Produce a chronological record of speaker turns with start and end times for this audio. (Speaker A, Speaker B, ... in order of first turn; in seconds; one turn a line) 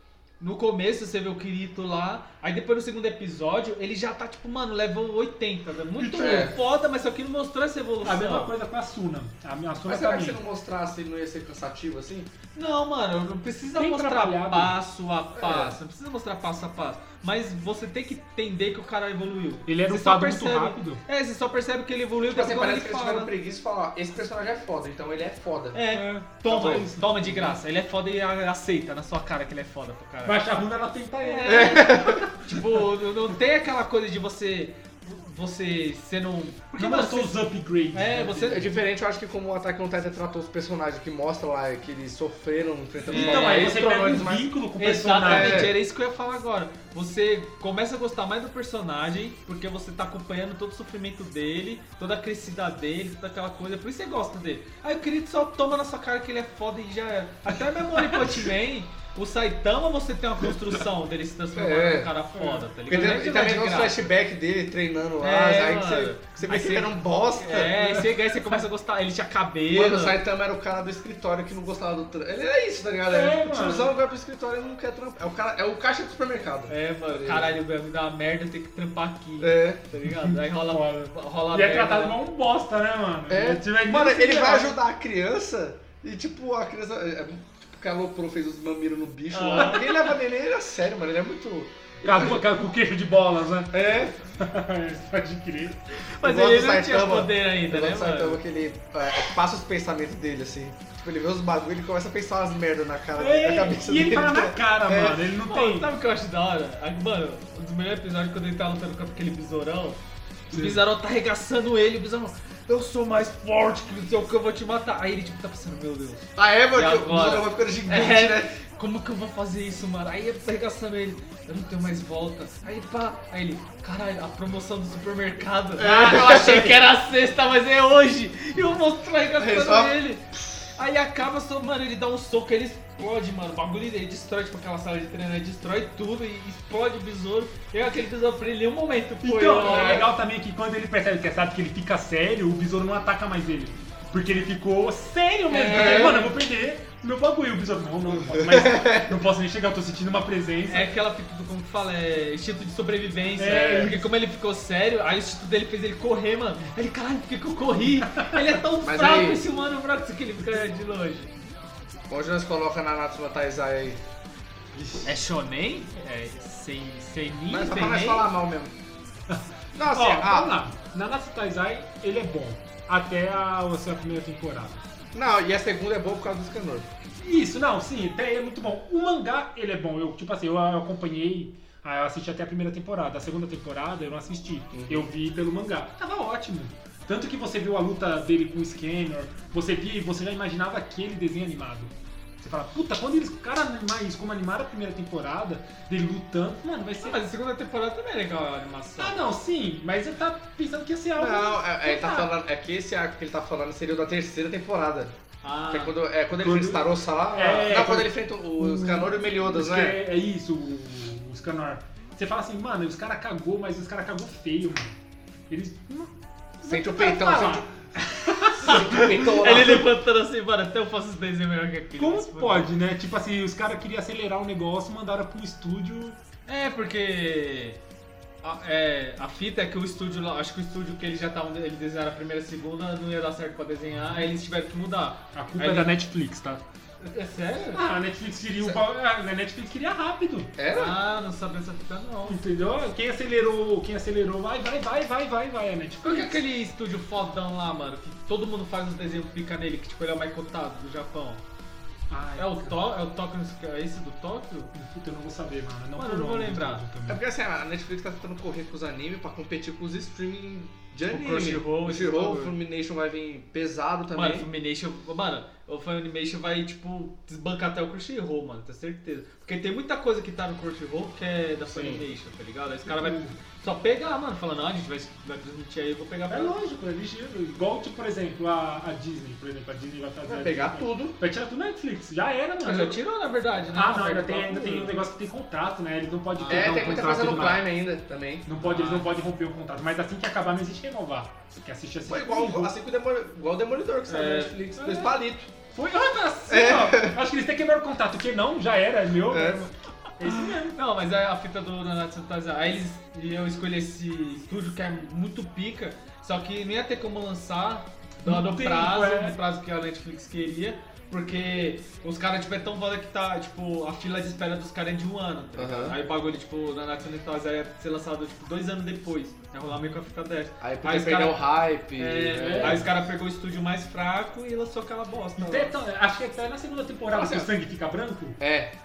Speaker A: 0.4-8.5
Speaker B: 6.0-6.5
Speaker C: 6.2-6.5
Speaker B: 8.0-10.4
Speaker C: 9.8-12.3
Speaker A: 12.5-23.3
Speaker B: 13.8-14.8
Speaker C: 15.3-15.8
Speaker B: 19.6-21.0
Speaker C: 22.3-25.8
Speaker A: 25.7-30.4
Speaker B: 25.9-27.6
Speaker C: 26.5-26.9
Speaker B: 30.2-32.3
Speaker A: 31.2-38.7
Speaker C: 31.4-32.3
Speaker B: 36.8-38.8
Speaker C: 38.5-44.5
Speaker B: 43.0-45.7
Speaker A: 43.1-64.1
Speaker C: 45.2-45.7
Speaker C: 61.5-62.1
Speaker B: 62.3-62.7
Speaker C: 62.9-67.9
Speaker A: 65.2-70.2
Speaker B: 67.8-68.1
Speaker C: 69.7-77.6
Speaker B: 73.1-74.0
Speaker A: 76.7-82.2
Speaker C: 79.4-79.8
Speaker B: 80.0-84.8
Speaker C: 83.3-92.6
Speaker A: 89.3-90.1
Speaker B: 92.0-93.8
Speaker C: 93.7-94.1
Speaker B: 94.4-95.8
Speaker A: 96.0-98.4
Speaker C: 96.2-105.2
Speaker B: 103.2-105.9
Speaker A: 105.4-140.1
Speaker C: 110.5-110.8
Speaker C: 116.3-118.5
Speaker C: 125.8-126.8
Speaker C: 129.4-130.0
Speaker B: 139.2-150.9
Speaker C: 139.6-140.1
Speaker A: 145.5-146.3
Speaker C: 145.7-146.2
Speaker C: 148.4-149.1
Speaker A: 150.7-161.3
Speaker B: 153.4-154.0
Speaker C: 153.5-153.9
Speaker C: 158.8-159.4
Speaker C: 162.1-164.0
Speaker C: 164.8-165.0
Speaker A: 165.0-168.3
Speaker C: 167.5-168.7
Speaker B: 169.3-174.8
Speaker C: 169.7-170.5
Speaker C: 175.1-176.9
Speaker B: 177.2-197.2
Speaker C: 184.7-185.1
Speaker A: 197.0-199.2
Speaker B: 199.0-202.3
Speaker C: 201.2-205.1
Speaker A: 205.4-206.0
Speaker C: 205.7-210.0
Speaker B: 206.4-214.9
Speaker B: 215.5-218.8
Speaker C: 216.7-217.7
Speaker C: 218.6-219.9
Speaker A: 218.6-222.7
Speaker B: 222.0-226.2
Speaker A: 226.5-227.8
Speaker A: 228.4-235.9
Speaker B: 233.9-234.2
Speaker B: 235.3-236.6
Speaker A: 237.0-237.8
Speaker B: 237.7-240.5
Speaker C: 240.6-240.9
Speaker A: 240.7-242.4
Speaker B: 242.2-246.4
Speaker A: 246.0-251.4
Speaker B: 252.1-252.8
Speaker A: 252.3-254.7
Speaker B: 254.7-257.2
Speaker A: 255.9-256.8
Speaker C: 257.1-264.5
Speaker A: 261.1-262.5
Speaker A: 264.1-276.5
Speaker C: 271.7-272.0
Speaker B: 272.9-273.4
Speaker B: 276.3-283.0
Speaker C: 280.2-281.2
Speaker A: 282.6-285.0
Speaker B: 283.7-287.7
Speaker A: 286.3-287.2
Speaker C: 286.5-288.5
Speaker B: 288.4-292.7
Speaker A: 288.6-289.1
Speaker C: 292.0-295.5
Speaker A: 294.1-295.1
Speaker B: 295.7-300.8
Speaker C: 296.5-297.2
Speaker C: 299.2-299.7
Speaker A: 300.2-321.4
Speaker B: 308.2-309.4
Speaker C: 315.6-315.9
Speaker C: 320.6-322.9
Speaker A: 321.9-325.7
Speaker B: 322.4-322.9
Speaker B: 325.4-328.4
Speaker C: 327.1-327.5
Speaker C: 328.4-328.7